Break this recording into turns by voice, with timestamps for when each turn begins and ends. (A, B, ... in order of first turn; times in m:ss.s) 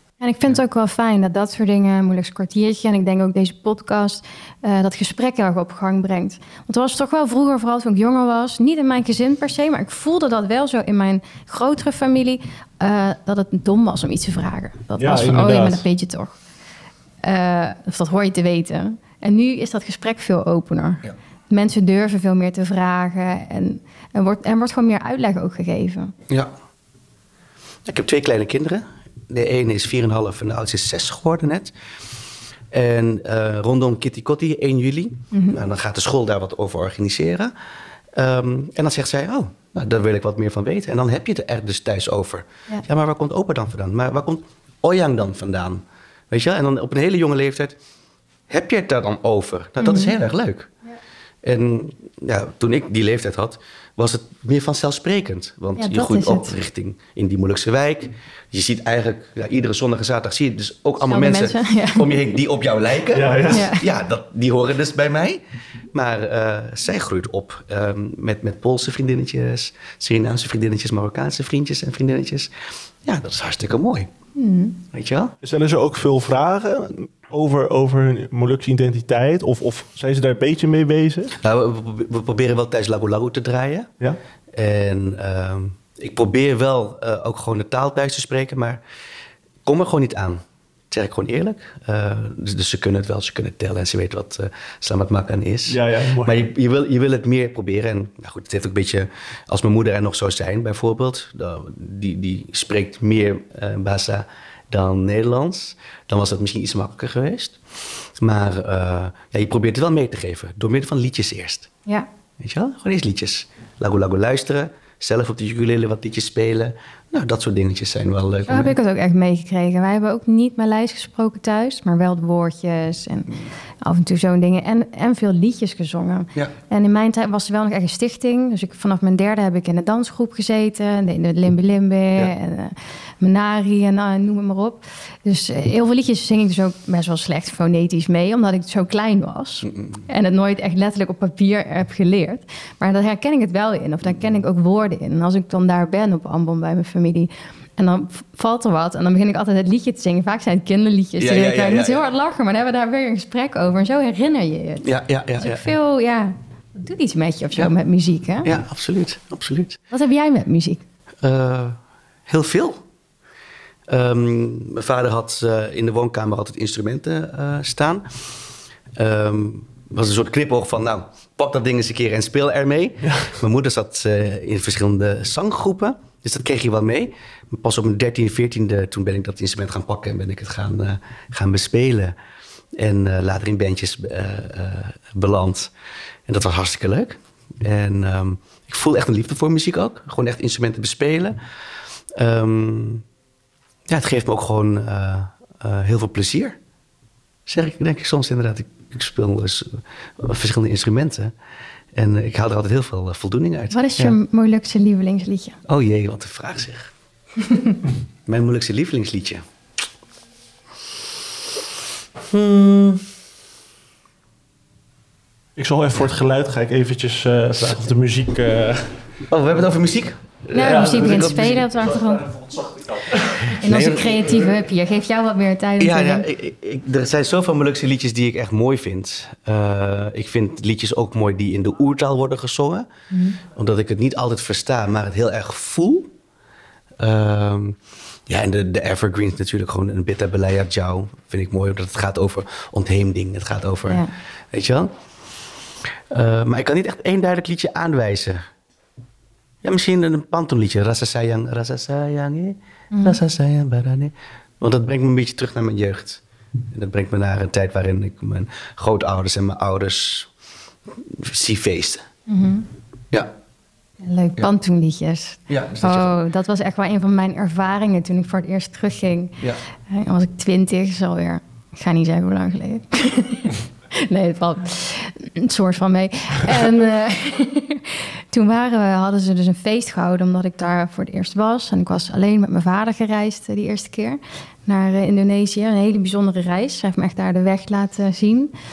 0:00.2-0:16.4 A
0:15.0-0:15.8 B
0:17.2-0:26.1 A
0:27.8-0:31.7 C
0:32.7-0:37.5 C
0:35.3-0:35.6 A
0:38.1-0:47.8 C
0:48.5-0:50.7 C
0:49.8-0:50.1 A
0:51.4-1:05.4 C
0:55.8-0:56.5 A
1:01.1-1:02.1 A
1:03.1-1:03.7 B
1:03.5-1:03.8 A
1:05.9-1:12.5 C
1:13.0-1:14.1 C
1:14.4-1:14.8 A
1:14.9-1:15.3 C
1:15.4-1:21.4 B
1:21.4-1:23.9 C
1:24.5-1:28.8 C
1:29.6-1:30.4 C
1:30.9-1:47.6 C
1:35.7-1:36.4 B
1:48.2-1:51.7 C
1:52.4-1:58.7 C
1:58.5-2:38.5 A
2:19.6-2:20.0 C
2:31.2-2:32.0 C
2:34.8-2:35.7 C
2:38.4-2:39.8 C
2:39.9-2:40.8 A
2:41.2-2:42.8 C
2:43.9-2:48.0 C
2:49.0-3:02.2 C
2:53.0-2:53.3 B
3:02.8-3:05.7 C
3:06.3-3:11.4 C
3:12.1-3:13.0 C
3:13.9-3:16.6 C
3:17.5-3:21.3 C
3:21.9-3:24.2 C
3:23.7-3:25.6 A
3:25.6-3:26.9 C
3:27.5-3:27.8 A
3:28.2-3:29.4 C
3:32.3-3:33.0 C
3:35.6-3:39.0 B
3:39.3-3:41.6 C
3:40.5-3:42.2 A
3:40.5-3:44.5 B
3:43.6-3:44.4 C
3:43.6-3:46.2 A
3:45.8-3:52.9 C
3:53.1-3:53.4 A
3:53.4-3:56.1 C
3:57.0-4:04.9 C
4:06.1-4:08.4 C
4:09.6-4:20.3 C
4:12.9-4:13.2 A
4:21.0-4:22.0 C
4:22.3-4:22.7 A
4:24.0-4:48.5 A
4:25.5-4:26.1 C